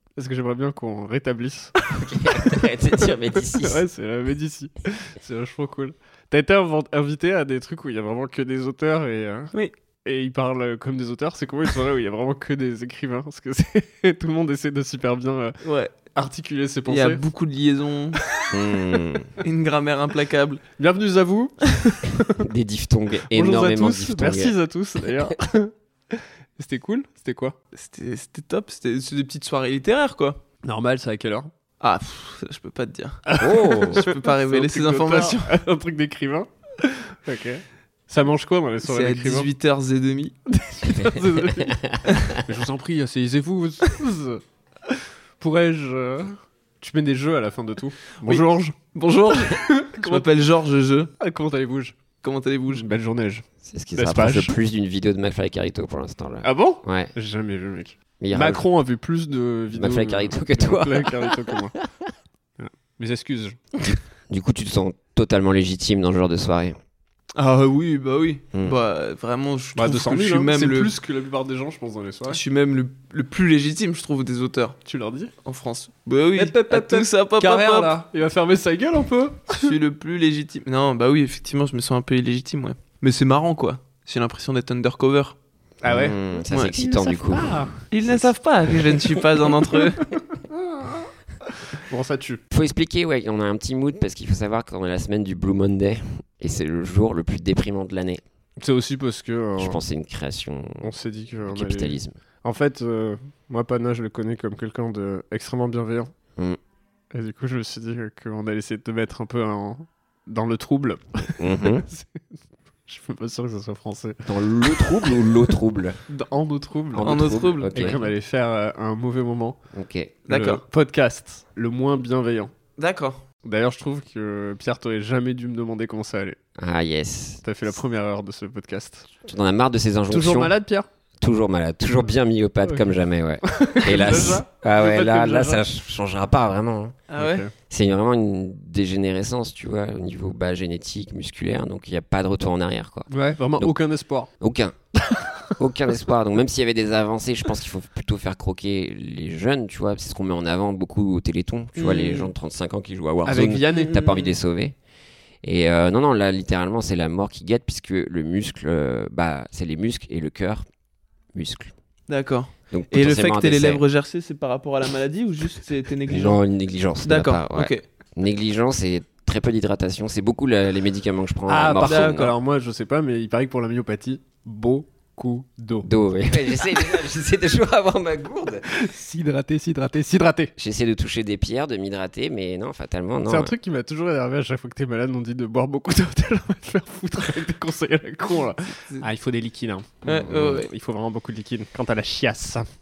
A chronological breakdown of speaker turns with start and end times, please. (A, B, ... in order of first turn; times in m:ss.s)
0:00.2-0:09.5 A
0:01.9-0:03.8 B
0:10.0-0:15.6 A
0:15.6-0:15.9 C
0:16.1-0:17.2 A
0:16.9-0:18.2 C
0:18.5-0:19.3 B
0:19.4-0:20.6 C
0:20.8-0:22.5 A
0:22.4-0:24.6 B
0:23.3-0:27.6 A
0:27.7-0:30.4 C
0:30.6-0:31.5 A
0:31.8-0:35.6 C
0:33.3-0:39.5 A
0:33.4-0:34.1 B
0:38.8-0:40.4 C
0:40.5-0:41.8 A
0:40.9-0:42.4 B
0:42.4-0:50.3 A
0:49.0-0:51.1 C
0:51.2-0:52.0 A
0:52.2-0:52.9 C
0:52.7-0:54.6 A
0:53.6-0:57.1 B
0:56.4-1:01.8 A
0:58.2-0:58.6 B
0:59.7-1:02.1 B
1:02.6-1:03.7 A
1:03.8-1:06.8 B
1:07.4-1:10.9 C
1:09.8-1:12.4 A
1:12.3-1:14.8 C
1:14.8-1:15.3 A
1:15.4-1:18.0 C
1:16.4-1:19.7 A
1:19.6-1:25.4 C
1:25.8-1:27.8 A
1:25.8-1:28.3 B
1:27.9-1:30.1 C
1:29.6-1:31.1 A
1:31.7-1:32.4 A
1:32.5-1:38.2 B
1:38.6-1:39.8 A
1:39.6-1:40.9 B
1:40.8-1:46.1 A
1:41.5-1:42.2 B
1:47.1-1:52.2 A
1:51.4-1:51.9 B
1:52.9-1:55.3 A
1:54.3-1:56.0 B
1:56.1-1:59.6 A
1:56.9-1:58.1 B
1:57.0-1:57.9 C
1:59.7-2:00.2 B
2:00.3-2:00.6 C
2:00.3-2:02.5 A
2:02.8-2:03.2 C
2:03.4-2:06.4 A
2:06.6-2:07.4 B
2:07.4-2:09.1 A
2:09.3-2:10.5 B
2:10.1-2:10.9 A
2:11.2-2:17.0 B
2:13.4-2:15.6 A
2:17.1-2:17.4 C
2:17.2-2:17.5 A
2:17.7-2:23.8 B
2:23.1-2:24.3 A
2:24.4-2:24.8 B
2:25.5-2:34.8 B
2:31.8-2:32.3 C
2:33.2-2:34.0 A
2:33.7-2:34.4 C
2:35.4-2:40.6 B
2:41.3-2:41.7 B
2:42.1-2:46.4 C
2:42.7-2:43.8 B
2:46.1-2:52.4 B
2:47.0-2:47.8 C
2:51.5-2:55.9 A
2:51.8-2:52.4 C
2:55.8-2:58.6 B
2:58.7-3:00.5 A
3:00.6-3:03.5 B
3:03.2-3:12.7 A
3:10.1-3:10.7 C